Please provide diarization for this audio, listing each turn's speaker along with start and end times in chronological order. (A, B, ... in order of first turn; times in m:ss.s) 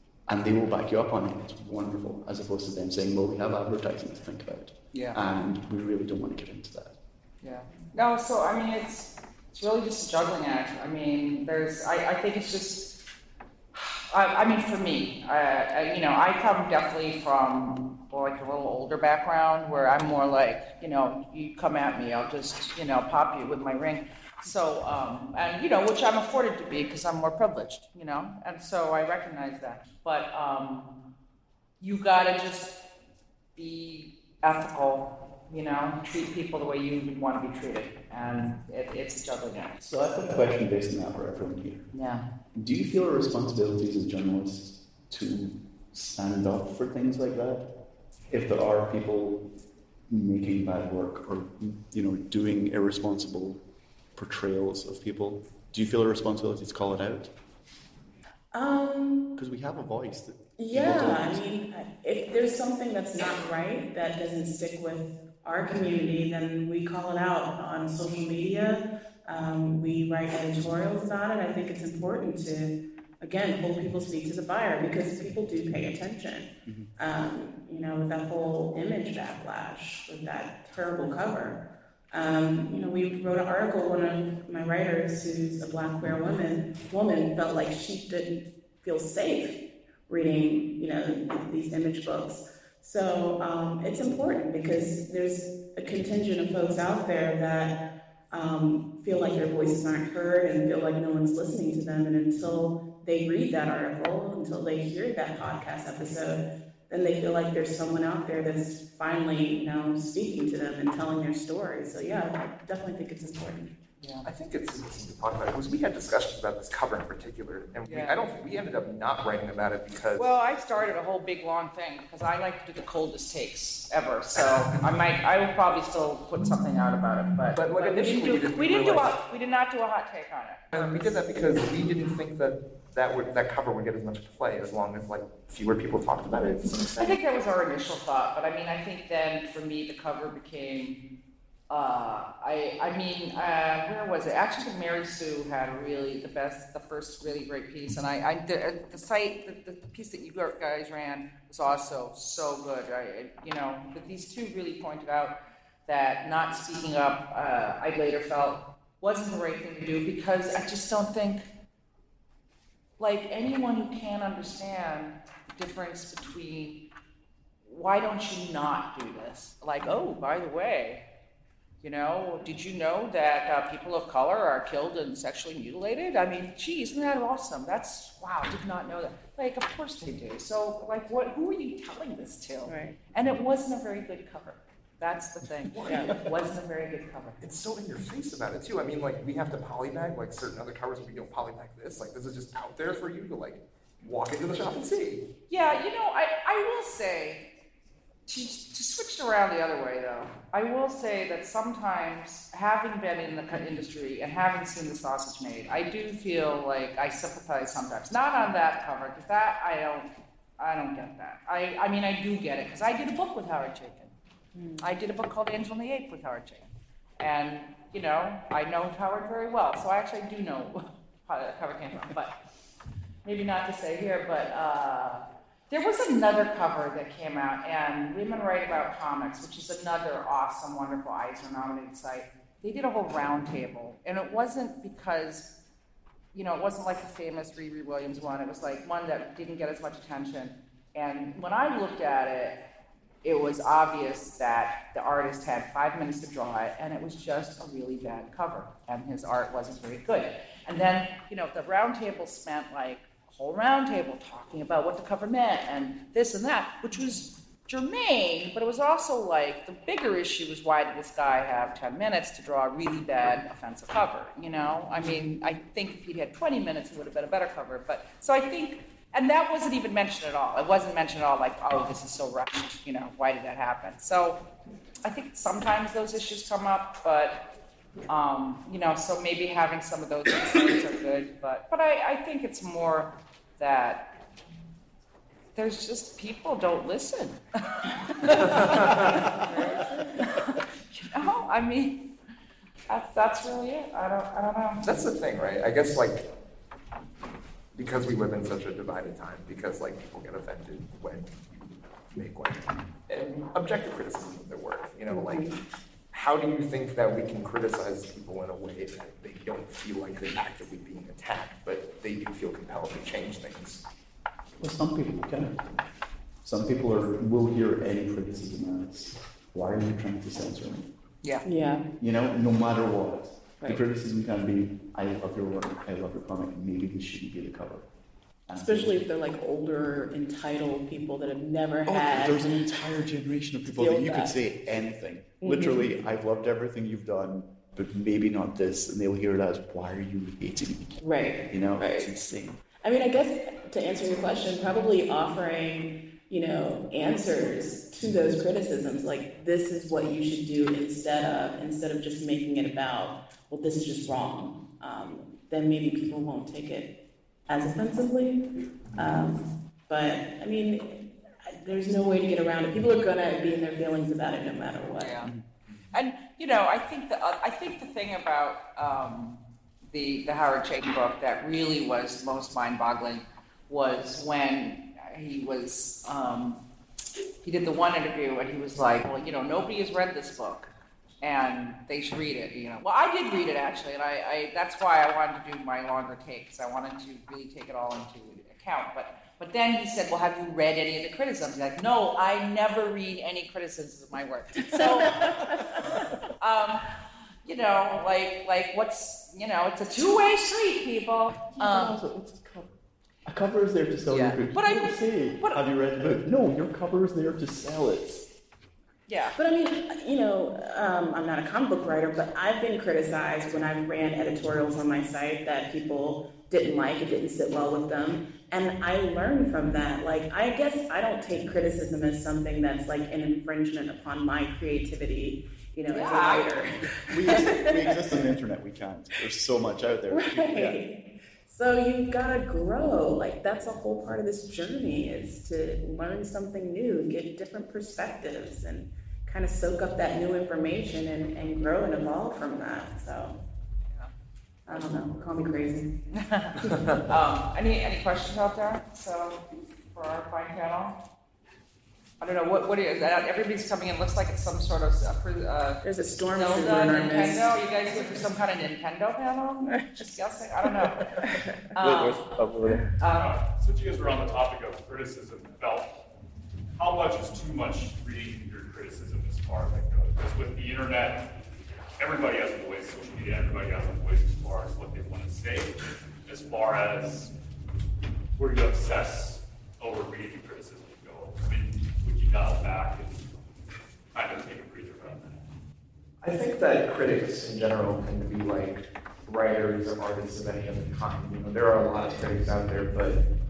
0:00.3-0:07.0 A
0:04.9-0:05.2 B
0:07.4-0:13.0 B
0:13.7-0:30.9 B
0:31.8-0:32.8 B
0:33.6-0:39.8 B
0:39.8-0:41.9 A
0:41.9-0:42.2 B
0:42.6-0:47.7 A
0:48.3-0:49.5 A
0:50.1-0:53.6 A
0:54.2-0:57.3 A
0:58.5-0:59.3 C
0:59.4-1:01.5 A
1:00.6-1:21.6 C
1:16.7-1:16.9 A
1:22.1-1:29.6 C
1:30.1-1:37.8 C
1:38.3-1:53.8 C
1:54.0-1:54.3 B
1:54.3-2:00.3 D
1:57.8-1:58.2 B
2:00.2-2:11.2 B
2:04.3-2:04.8 D
2:07.5-2:09.2 D
2:10.7-2:17.2 D
2:17.0-2:21.0 B
2:21.7-2:41.5 B
2:43.0-2:46.8 B
2:47.7-2:51.0 B
2:51.8-3:07.4 B
3:02.7-3:03.0 C
3:05.9-3:06.2 C
3:07.4-3:15.2 D
3:15.5-3:17.5 B
3:18.3-3:34.1 B
3:34.6-3:34.9 C
3:34.8-3:42.3 B
3:43.2-3:55.5 B
3:56.3-4:02.6 B
4:03.2-4:34.4 B
4:35.0-4:37.4 B
4:38.1-4:44.1 B
4:45.6-4:47.4 B
4:48.4-4:49.1 D
4:49.1-4:50.3 C
4:49.5-4:52.0 B
4:52.9-4:54.8 B
4:54.8-4:56.3 D
4:57.8-5:01.3 D
5:02.1-5:05.5 D
5:03.1-5:03.5 B
5:05.1-5:05.6 C
5:06.1-5:13.8 D
5:14.6-5:15.6 A
5:16.4-5:20.9 A
5:21.5-5:21.9 C
5:22.0-5:27.8 A
5:28.5-5:29.0 A
5:28.6-5:32.6 C
5:31.9-5:41.0 A
5:33.7-5:34.3 C
5:35.4-5:35.9 C
5:41.0-5:42.1 C
5:41.5-5:42.6 A
5:42.8-5:56.9 C
5:57.5-5:58.4 C
5:59.0-6:05.2 C
6:05.0-6:05.3 B
6:05.9-6:16.6 B
6:17.4-6:20.7 B
6:21.2-6:35.2 B
6:34.6-6:35.7 C
6:36.4-6:36.8 B
6:37.4-6:42.0 B
6:41.4-6:48.2 A
6:44.1-6:45.6 B
6:49.1-6:49.3 B
6:49.4-7:07.9 C
7:05.9-7:06.6 B
7:07.1-7:10.8 A
7:10.1-7:23.4 C
7:24.7-7:25.9 C
7:26.1-7:31.0 B
7:26.7-7:27.0 D
7:32.2-7:41.0 B
7:35.8-7:38.3 C
7:39.6-7:41.6 C
7:41.8-7:42.3 B
7:41.8-7:42.8 A
7:43.0-7:43.3 B
7:43.2-7:45.9 E
7:46.8-7:51.3 E
7:52.0-7:57.3 E
7:58.4-8:03.2 E
8:04.1-8:05.4 E
8:06.2-8:13.2 D